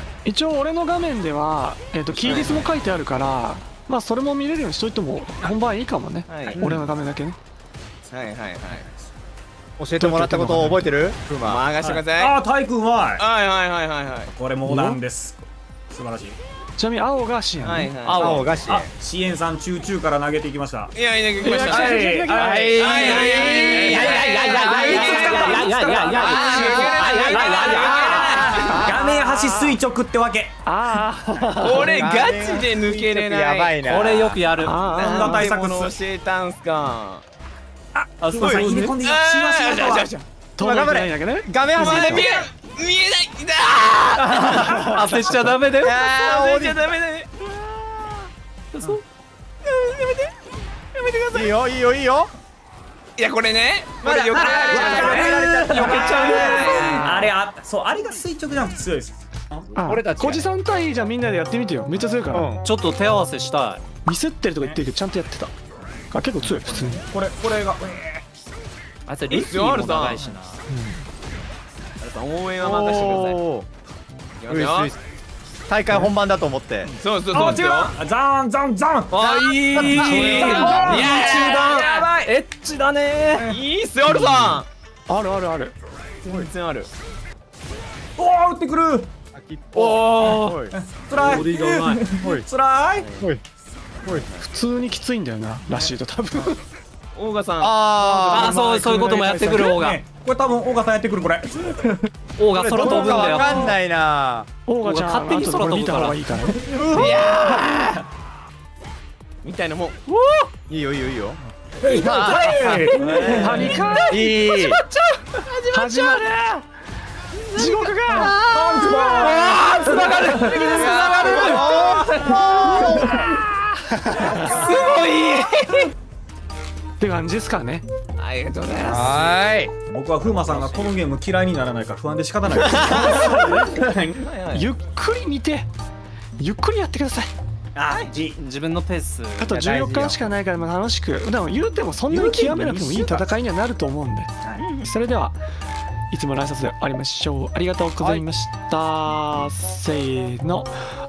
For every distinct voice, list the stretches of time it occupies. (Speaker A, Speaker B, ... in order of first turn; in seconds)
Speaker A: 0.2-7.4, 10.0-10.9, 14.7-15.0, 16.8-18.3, 21.4-23.5, 28.7-29.8, 30.6-32.0, 34.6-35.5, 40.6-42.2, 55.9-57.3, 59.8-62.5, 64.0-65.5, 66.1-67.1, 70.7-71.0, 80.0-81.2, 84.5-85.7, 94.4-96.6, 98.8-99.7, 104.7-107.1, 113.3-114.5, 115.7-116.6, 117.5-118.4, 124.1-124.6, 127.0-127.8, 134.5-135.7, 136.4-137.3, 139.4-145.4, 146.1-150.7
Speaker B: 2.2-2.5, 6.3-6.7, 8.1-8.9, 11.4-12.4, 13.2-14.3, 17.6-18.7, 20.9-21.9, 22.5-29.1, 31.5-37.2, 39.0-40.2, 41.8-45.0, 46.0-48.3, 49.6-50.3, 50.9-51.5, 53.2-57.2, 60.0-60.2, 69.3-70.3, 72.0-73.4, 74.4-74.9, 76.9-78.0, 79.1-82.2, 83.4-84.7, 86.2-86.9, 93.0-93.3, 94.0-94.5, 97.2-98.9, 106.9-108.0, 109.4-110.0, 112.7-113.7, 115.5-116.3, 117.5-123.4, 124.1-125.9, 128.2-129.4, 130.2-131.0, 132.7-133.6, 134.2-134.7, 137.9-138.2, 144.6-144.9
Speaker C: 6.5-6.8, 9.8-11.7, 18.1-18.9, 22.3-25.2, 26.3-27.2, 31.8-34.4, 38.4-38.7, 40.6-42.5, 45.8-46.9, 51.3-52.3, 54.0-56.8, 62.3-62.6, 72.6-73.7, 74.5-75.0, 75.7-76.9, 79.2-81.1, 89.3-90.7, 92.2-92.5, 97.6-98.6, 102.5-104.5, 106.8-107.2, 110.7-114.8, 120.6-123.2, 124.2-124.6, 128.8-129.7, 139.5-140.2, 148.0-148.3
Speaker D: 12.2-13.3, 14.3-16.4, 18.1-21.0, 21.6-30.6, 31.3-31.7, 35.0-36.0, 38.0-40.2, 54.3-59.7, 67.1-68.2, 77.3-79.2, 79.8-82.1, 83.3-84.5, 88.2-89.1, 89.8-93.1, 98.6-102.1, 102.8-103.8, 106.4-108.0, 111.8-114.2, 118.1-123.4, 124.5-124.9, 129.9-134.2, 137.8-138.4, 142.1-143.3
Speaker E: 23.9-28.8, 33.8-35.0, 38.2-39.0, 44.5-46.0, 48.7-49.0, 62.6-63.8, 69.1-70.6, 79.6-80.9, 81.7-83.5, 89.8-90.6, 91.2-92.1, 98.3-100.0, 102.4-103.8, 104.8-106.2, 110.1-110.5, 112.3-113.4, 114.2-115.0, 138.3-139.6